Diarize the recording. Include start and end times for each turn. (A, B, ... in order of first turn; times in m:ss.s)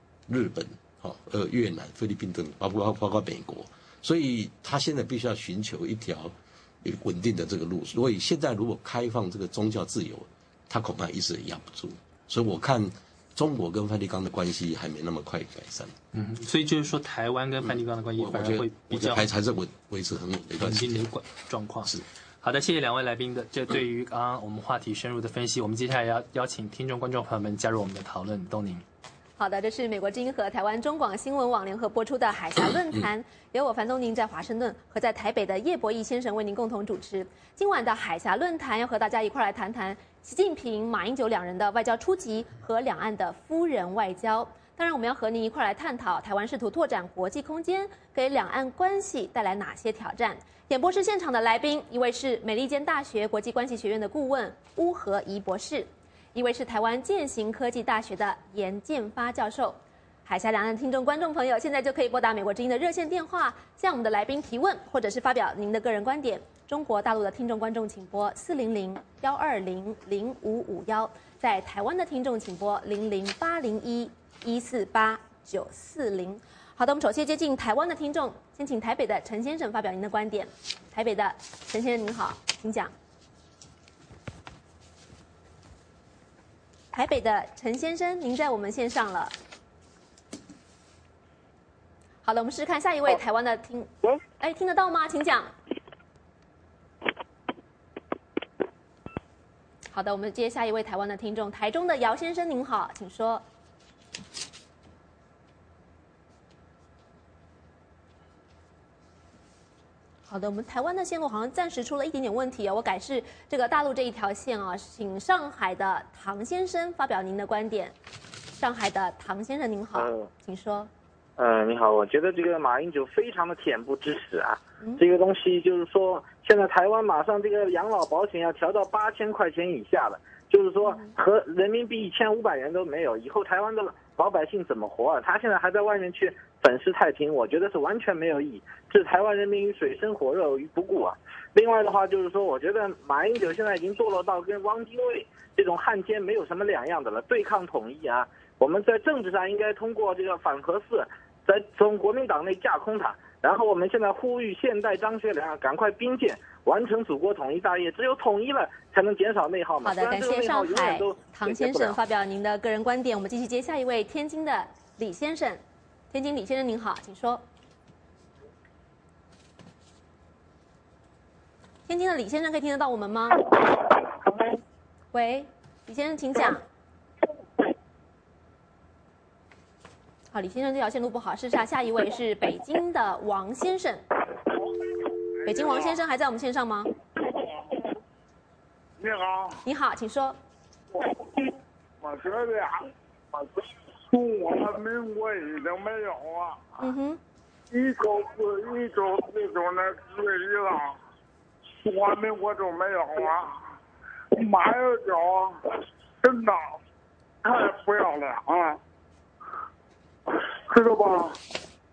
0:00.3-0:15.9 A
0:16.1-0:19.2 B
0:18.2-0:21.1 A
0:20.6-0:28.8 B
0:29.4-1:22.9 C
1:26.9-1:29.3 C
1:32.2-1:35.5 C
1:39.9-1:43.4 C
1:50.3-1:57.9 C
1:58.5-2:00.9 C
1:59.9-2:00.3 D
2:01.4-2:42.0 D
2:10.8-2:11.1 C
2:39.8-2:47.4 C
2:51.9-2:53.8 C
2:55.1-2:56.6 C
3:00.3-3:04.0 C
3:05.4-3:05.8 E
3:05.4-3:06.9 C
3:09.0-3:09.6 E
3:09.6-3:10.4 C
3:12.0-3:12.9 E
3:14.1-3:16.6 E
3:16.8-3:17.2 C
3:17.7-3:21.0 E
3:21.8-3:23.6 E
3:24.3-3:25.6 E
3:26.2-3:26.7 E
3:27.4-3:28.8 E
3:30.7-3:31.4 E